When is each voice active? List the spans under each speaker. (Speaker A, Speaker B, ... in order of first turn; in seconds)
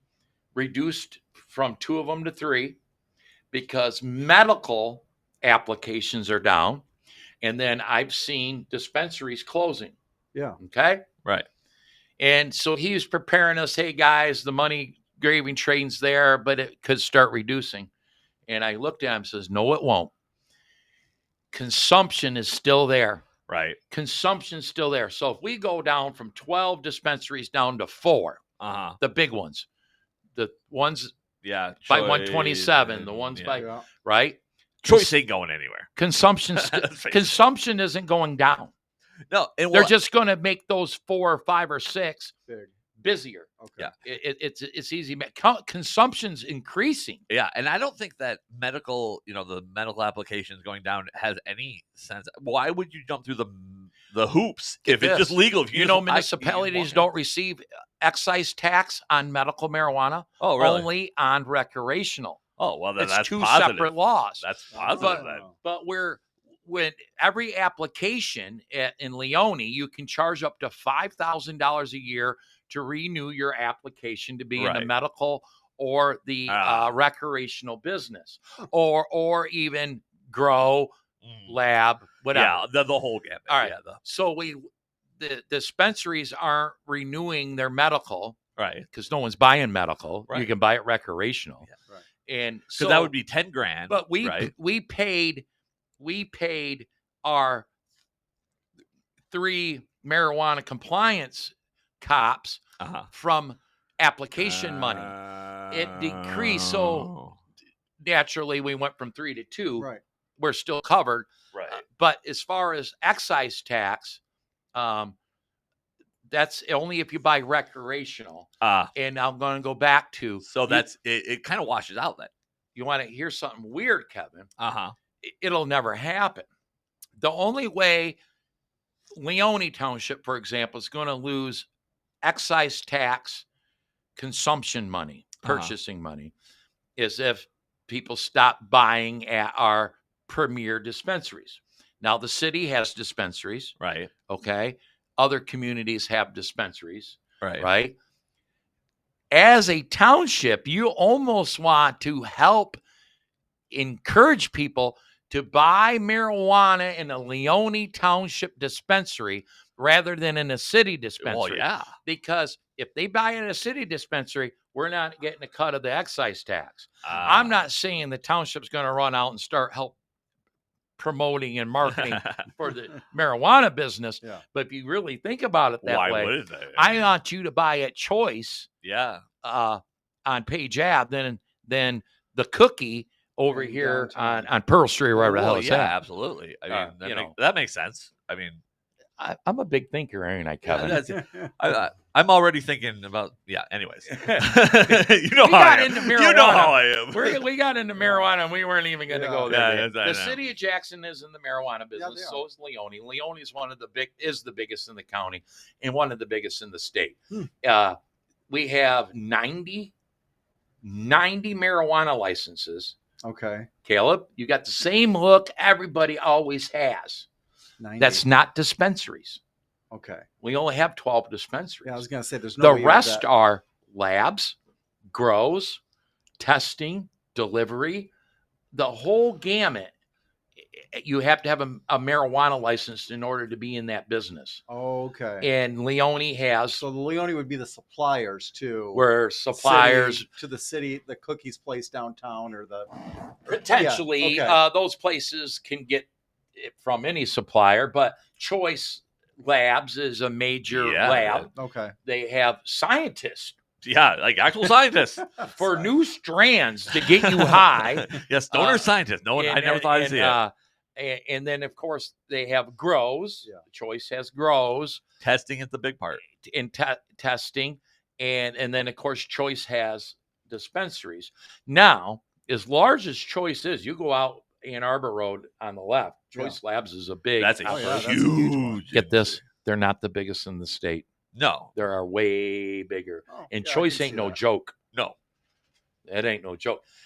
Speaker A: 0.5-2.8, 3.5-6.8, 7.4-9.9, 10.6-11.0, 12.2-17.9, 18.5-20.1, 21.5-23.2, 23.9-28.4, 29.0-29.6, 30.3-31.1, 31.9-35.1, 36.0-38.7, 39.7-42.3, 43.0-43.5, 44.0-47.2, 54.8-62.4, 63.0-80.9, 81.5-82.7, 83.5-84.6, 85.2-88.4, 88.9-91.7, 92.2-93.1, 93.9-95.4, 96.0-97.7, 99.3-105.1, 105.7-107.1, 108.0-109.9, 110.4-114.2, 114.7-115.2, 116.3-120.9, 122.7-124.5, 125.2-126.5, 127.2-128.2, 129.2-131.7, 132.2-133.4, 134.2-136.3, 137.0-143.8, 144.3-147.9, 149.3-152.8, 153.7-169.9, 171.0-178.7, 179.4-185.9, 186.7-187.3, 189.2-191.1, 194.1-207.9, 208.5-209.9, 210.8-212.9, 213.8-217.3, 218.0-219.4, 220.4-222.0, 222.6-224.6, 225.1-225.8, 226.4-228.1, 228.7-229.9, 230.7-234.6, 235.4-236.8, 238.9-240.2, 243.4-251.5, 252.0-253.6, 255.4-265.0, 266.2-278.1, 278.9-281.1, 281.7-284.7, 286.1-286.8
Speaker B: 23.5-23.8, 28.6-29.0, 31.4-33.6, 34.8-35.9, 36.5-37.4, 39.3-39.9, 47.3-57.1, 60.4-60.9, 62.6-65.4, 74.6-74.9, 76.5-76.9, 81.2-81.5, 82.3-84.0, 88.6-88.8, 92.8-94.5, 102.8-103.1, 104.4-107.4, 111.5-111.8, 118.6-118.9, 120.5-122.3, 124.6-124.9, 135.4-135.7, 143.8-144.1, 147.4-147.7, 161.2-161.9, 167.0-167.6, 171.8-172.4, 175.8-177.0, 178.8-179.2, 185.2-188.6, 190.6-197.4, 199.5-200.4, 250.7-251.5, 253.8-255.4, 256.9-260.4, 265.2-266.2, 277.4-279.4, 281.3-281.7
Speaker C: 33.5-33.9, 43.6-43.9, 64.7-65.5, 183.5-184.5, 191.1-191.5, 198.0-198.3, 199.1-199.5, 201.9-202.4, 213.2-213.7, 217.8-218.2, 219.9-220.2, 221.8-223.3, 234.7-235.5, 236.7-242.9, 243.7-244.6, 251.5-251.9, 255.4-255.8, 277.6-278.8, 283.3-284.4